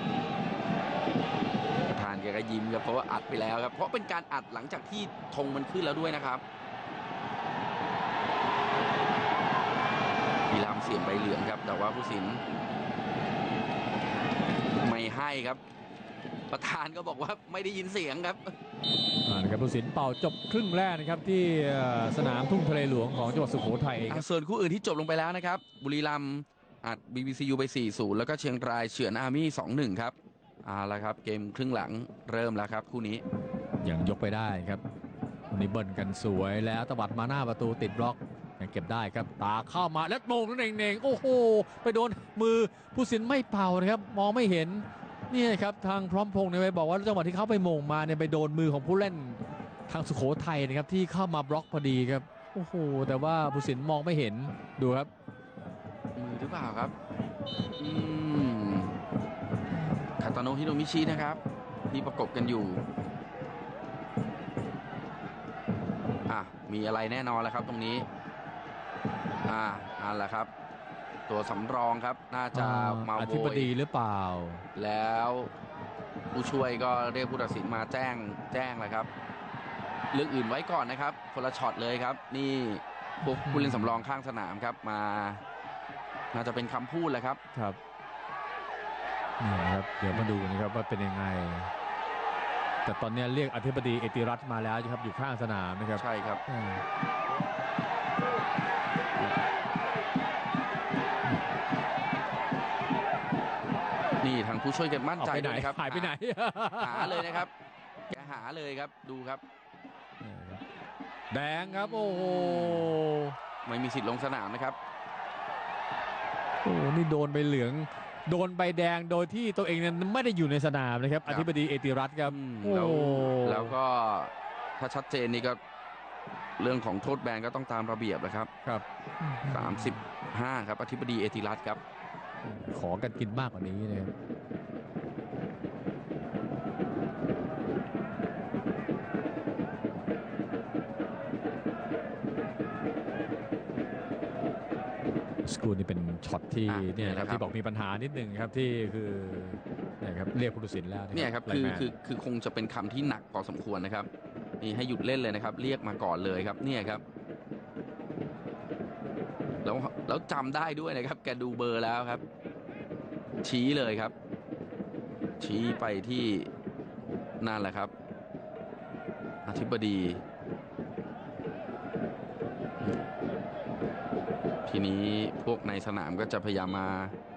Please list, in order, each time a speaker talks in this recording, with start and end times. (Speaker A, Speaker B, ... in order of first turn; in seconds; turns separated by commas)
Speaker A: 1.9-6.4, Speaker A: 10.5-12.4, Speaker A: 14.8-15.6, Speaker A: 16.5-18.5, Speaker B: 19.2-24.2, Speaker A: 24.1-33.2, Speaker B: 33.8-34.8, Speaker B: 35.5-55.1, Speaker A: 56.1-56.9, Speaker A: 57.8-59.0, Speaker A: 60.2-62.8, Speaker A: 66.3-68.0, Speaker A: 69.4-70.5, Speaker A: 71.3-73.7, Speaker B: 72.5-74.7, Speaker A: 74.7-75.5, Speaker A: 76.3-79.1, Speaker A: 80.1-85.4, Speaker B: 83.2-83.9, Speaker A: 86.3-87.4, Speaker B: 87.5-87.8, Speaker B: 89.4-91.7, Speaker A: 90.1-90.4, Speaker B: 92.8-96.8, Speaker A: 96.0-96.4, Speaker A: 104.2-106.2, Speaker B: 105.2-107.4, Speaker A: 106.8-107.5, Speaker A: 108.1-109.4, Speaker B: 110.2-110.6, Speaker B: 111.3-113.3, Speaker A: 111.5-113.0, Speaker A: 113.6-114.8, Speaker B: 116.6-123.8, Speaker A: 122.2-125.6, Speaker A: 126.6-128.5, Speaker B: 128.6-130.0, Speaker A: 129.5-131.8, Speaker B: 132.4-134.1, Speaker B: 145.4-151.9, Speaker A: 146.7-147.4, Speaker A: 151.1-154.1, Speaker A: 154.6-157.0, Speaker A: 159.6-162.2, Speaker A: 163.4-164.1, Speaker A: 165.4-166.5, Speaker A: 167.4-167.9, Speaker A: 169.4-170.2, Speaker A: 174.7-177.1